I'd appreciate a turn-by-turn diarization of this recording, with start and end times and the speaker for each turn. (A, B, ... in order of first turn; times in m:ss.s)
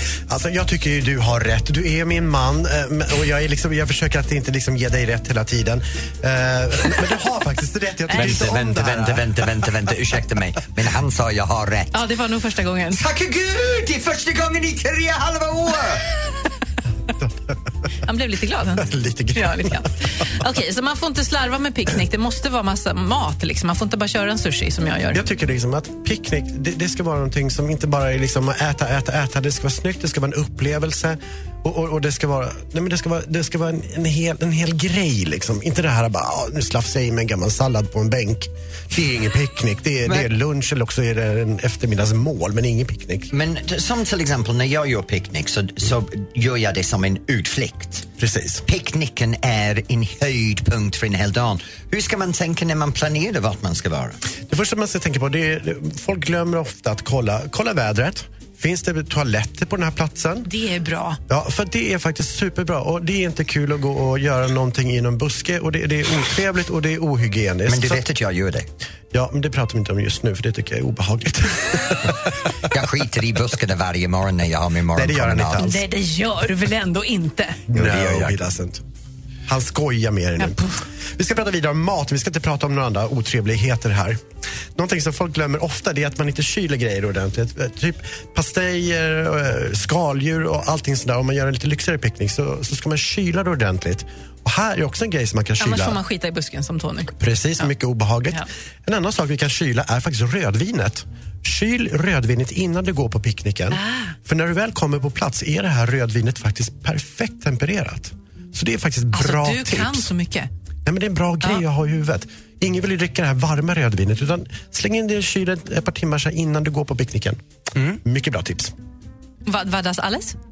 0:00.3-0:09.9 A
0:08.1-0:08.4 B
0:08.1-0:12.0 C
0:11.9-0:13.0 B
0:12.9-0:16.0 C
0:17.2-0:17.5 A
0:18.0-0:25.2 B
0:18.8-0:19.9 A
0:25.1-0:43.3 A
0:43.3-0:48.1 C
0:48.2-0:48.6 A
0:48.6-0:54.2 C
0:54.5-1:00.5 A
1:00.4-1:01.2 B
1:01.3-1:08.0 A
1:07.7-1:08.7 C
1:09.1-1:12.3 A
1:12.7-1:15.7 C
1:14.9-1:15.8 A
1:15.6-1:17.6 B
1:17.7-1:18.8 A
1:17.7-1:18.3 C
1:19.5-1:20.6 A
1:20.4-1:20.8 B
1:21.2-1:24.2 A
1:24.8-1:36.0 A
1:35.6-1:37.7 B
1:37.2-1:50.1 A
1:43.7-1:44.1 B
1:49.1-1:50.5 B
1:50.8-1:58.7 A
1:59.4-2:00.4 B